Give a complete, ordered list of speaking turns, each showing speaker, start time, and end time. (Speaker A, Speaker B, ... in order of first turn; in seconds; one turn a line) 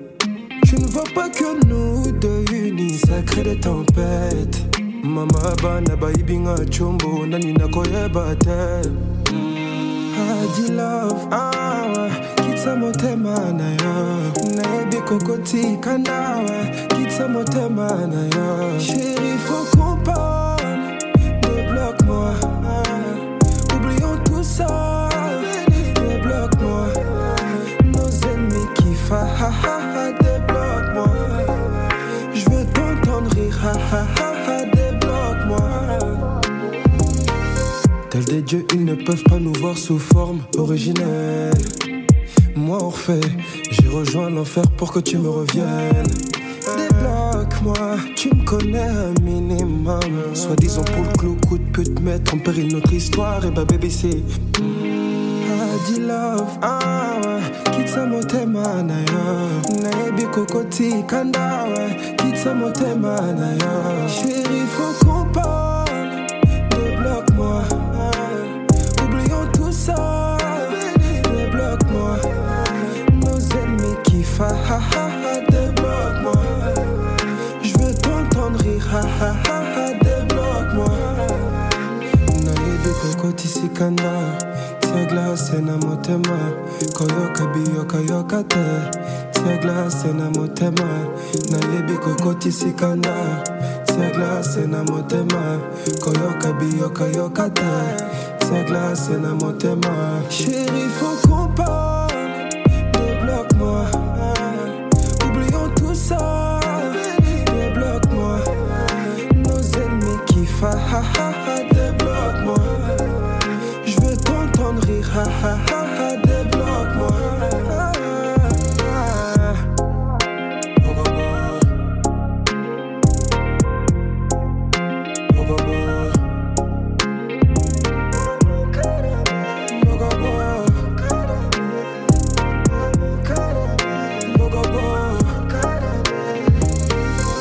Speaker A: 0.6-31.8
Speaker A: 32.3-36.3
Speaker A: 38.1-41.7
Speaker A: 42.5-77.1
Speaker A: 77.6-119.7
Speaker A: 120.8-121.7
Speaker A: 125.3-126.2
Speaker A: 128.3-131.6
Speaker A: 132.8-136.3